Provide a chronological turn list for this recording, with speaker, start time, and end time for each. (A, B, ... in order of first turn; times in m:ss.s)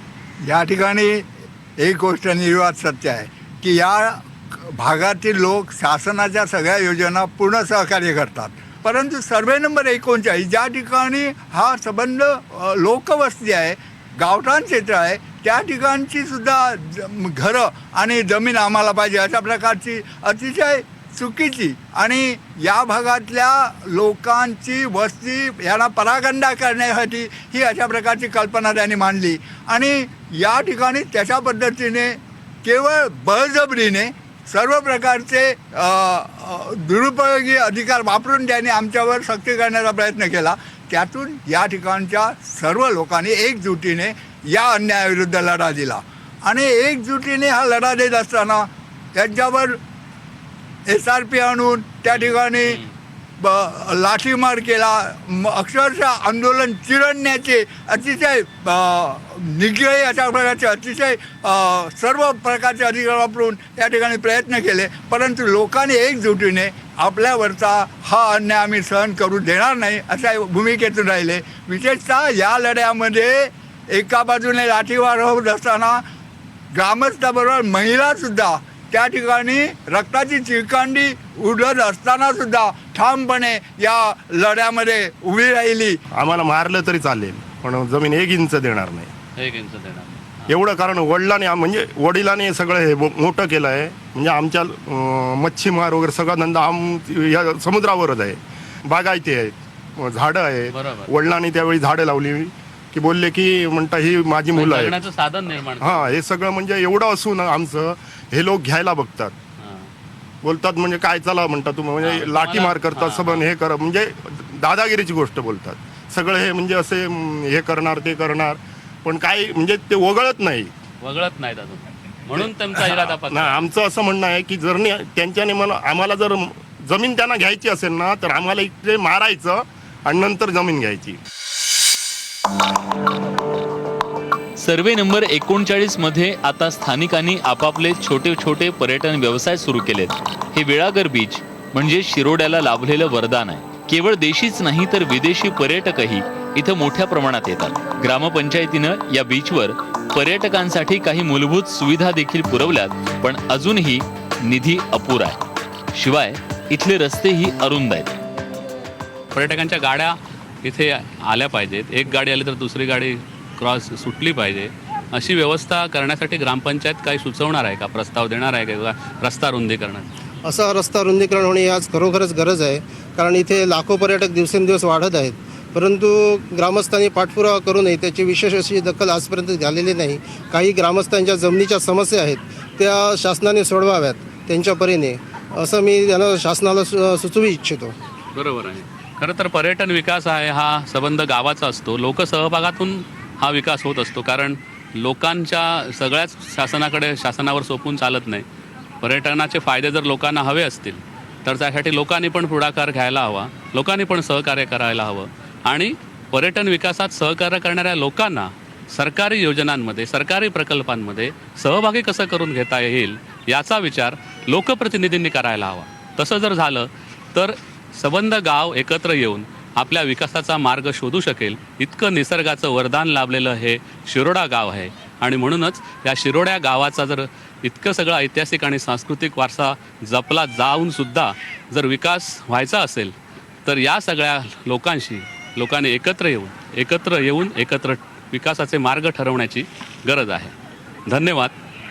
0:00.4-0:01.2 A
0:01.8-0:04.2 A
0:04.7-0:49.8 A
0:50.9-0:52.8 A
0:52.1-0:52.9 B
0:53.4-1:16.0 A
1:16.7-1:26.0 A
1:26.1-1:29.1 C
1:29.4-1:30.5 B
1:30.5-1:45.0 C
1:40.7-1:41.1 B
1:44.5-1:46.1 B
1:45.8-1:49.3 C
1:49.6-1:49.9 B
1:50.4-2:00.7 C
1:52.0-1:53.4 B
2:01.0-2:03.6 B
2:02.3-2:11.2 C
2:14.6-2:35.4 D
2:35.9-2:38.1 D
2:39.3-2:50.1 B
2:50.4-3:07.9 E
3:08.3-3:18.4 B
3:19.0-4:00.5 B
4:01.1-4:01.5 B